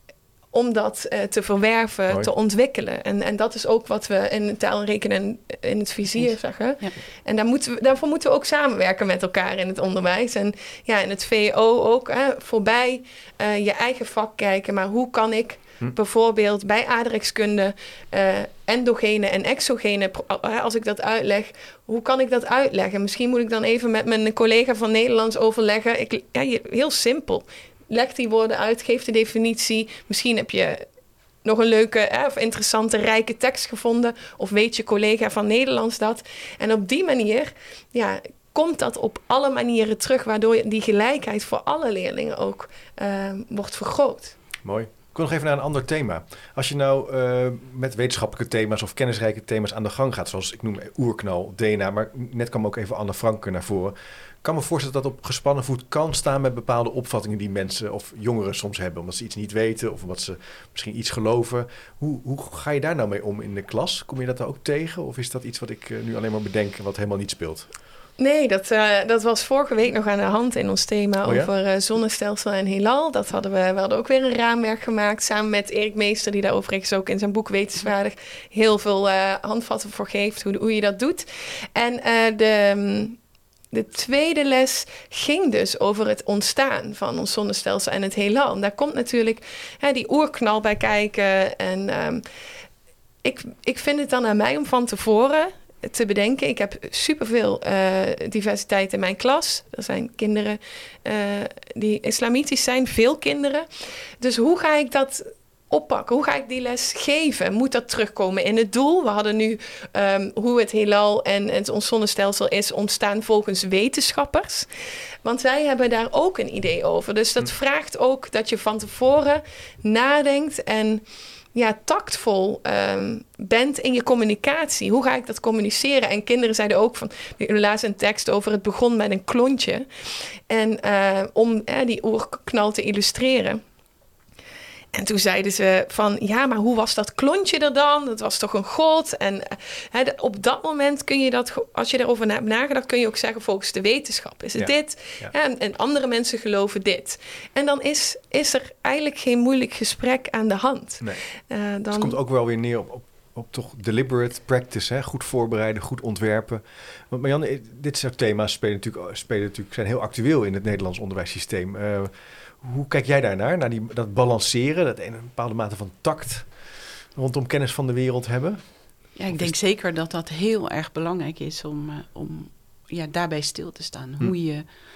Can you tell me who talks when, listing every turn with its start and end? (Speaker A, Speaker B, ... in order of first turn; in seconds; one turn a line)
Speaker A: 0.5-30.9
Speaker A: 31.4-44.4
Speaker B: 44.6-67.7
Speaker A: 68.2-83.2
Speaker B: 71.2-71.5
Speaker A: 83.7-92.2
Speaker A: 93.2-103.7
Speaker A: 104.2-114.7
Speaker A: 115.2-121.0
Speaker A: 121.5-129.9
Speaker A: 130.5-133.6
Speaker A: 134.9-152.2
Speaker B: 144.6-145.3
Speaker B: 151.9-169.6
Speaker C: 169.2-174.7